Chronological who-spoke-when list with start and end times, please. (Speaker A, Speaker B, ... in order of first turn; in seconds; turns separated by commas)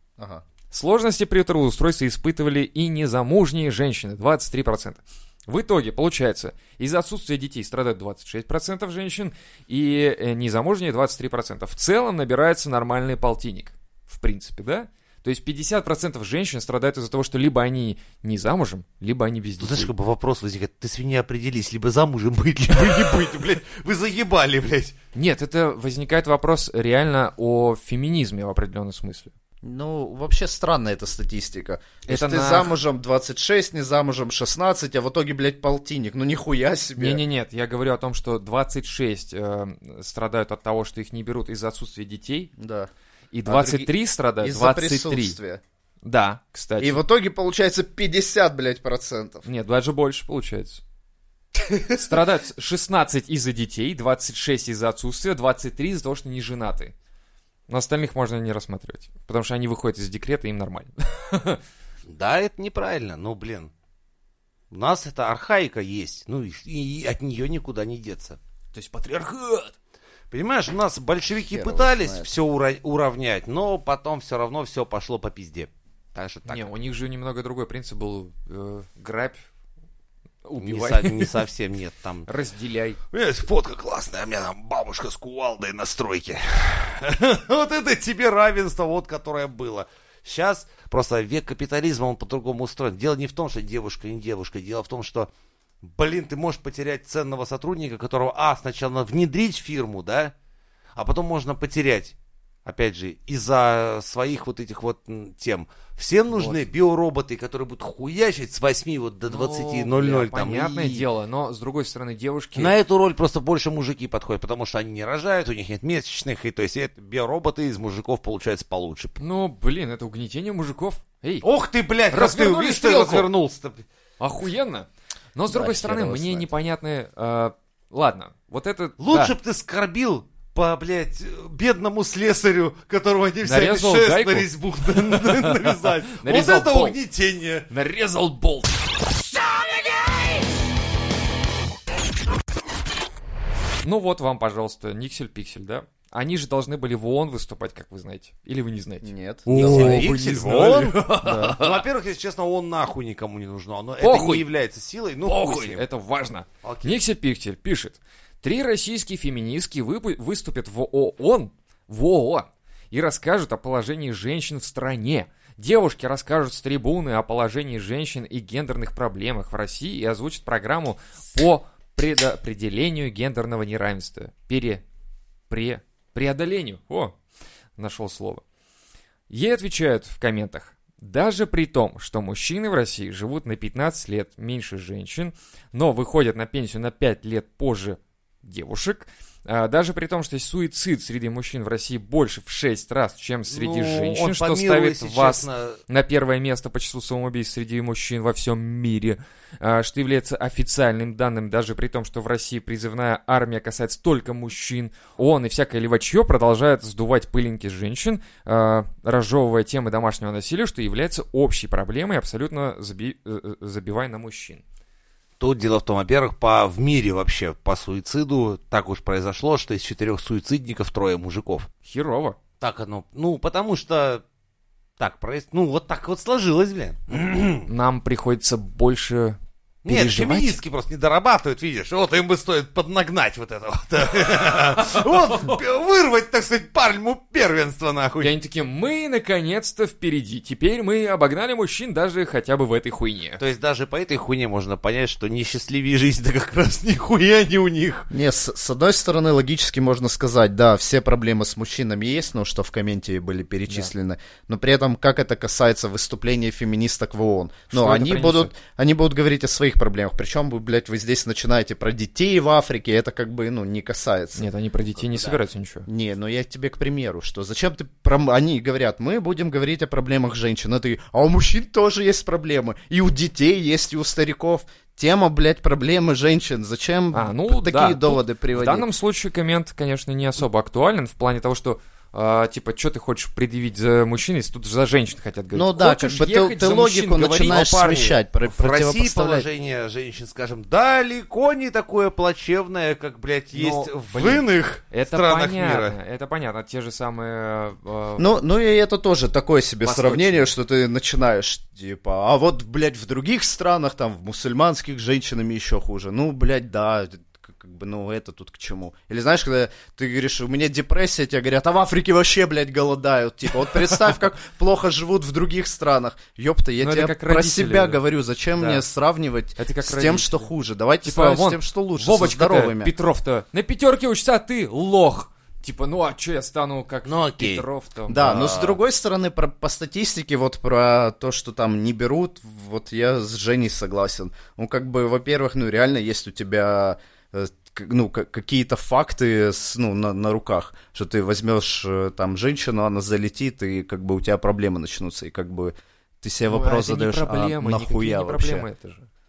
Speaker A: 0.2-0.4, Speaker B: 0.7-19.9, Speaker C: 19.6-24.9, Speaker B: 25.1-29.3, Speaker A: 29.6-37.2, Speaker B: 32.1-32.8, Speaker B: 37.0-42.5, Speaker A: 42.6-42.9, Speaker B: 43.3-45.4, Speaker A: 43.4-45.6, Speaker B: 46.0-47.0, Speaker A: 46.8-49.4, Speaker B: 49.4-50.8, Speaker A: 51.5-51.9, Speaker B: 51.9-56.9, Speaker B: 57.7-61.6, Speaker C: 62.1-63.7, Speaker C: 64.7-68.4, Speaker B: 68.7-69.7, Speaker C: 70.3-76.7, Speaker A: 71.5-72.3, Speaker B: 76.5-79.4, Speaker B: 80.4-81.3, Speaker C: 80.6-82.3, Speaker B: 82.3-83.0, Speaker C: 83.1-95.3, Speaker C: 95.8-100.3, Speaker C: 101.0-111.0, Speaker B: 106.3-106.6, Speaker B: 109.3-112.8, Speaker C: 112.5-119.2, Speaker B: 119.2-121.5, Speaker C: 121.4-123.8, Speaker B: 122.1-123.3, Speaker B: 124.2-129.3, Speaker A: 125.5-126.5, Speaker C: 129.0-137.7, Speaker B: 133.4-137.0, Speaker B: 137.7-138.7, Speaker B: 143.8-151.8, Speaker A: 149.0-150.1, Speaker C: 149.5-155.8, Speaker A: 151.3-151.5, Speaker B: 154.0-154.4, Speaker B: 155.2-174.8, Speaker C: 156.6-156.9, Speaker B: 175.5-177.1, Speaker B: 177.8-178.4, Speaker B: 179.3-214.6, Speaker C: 193.5-195.8, Speaker C: 215.4-221.7, Speaker B: 221.8-222.4, Speaker C: 222.6-224.2, Speaker C: 225.0-227.7, Speaker B: 227.7-230.6, Speaker C: 229.8-238.3, Speaker B: 238.2-243.4, Speaker C: 243.4-248.1, Speaker A: 248.1-264.4, Speaker B: 257.7-258.5, Speaker B: 264.4-265.9, Speaker A: 265.0-278.9, Speaker B: 277.1-287.3, Speaker A: 285.5-289.5, Speaker C: 286.9-295.9, Speaker B: 293.5-298.3, Speaker A: 298.2-322.9, Speaker B: 299.8-300.5, Speaker B: 316.8-318.0, Speaker B: 318.5-318.8, Speaker B: 319.6-320.5, Speaker B: 321.0-328.6, Speaker C: 327.1-327.6, Speaker A: 328.1-348.7, Speaker C: 328.2-328.8, Speaker B: 346.4-349.1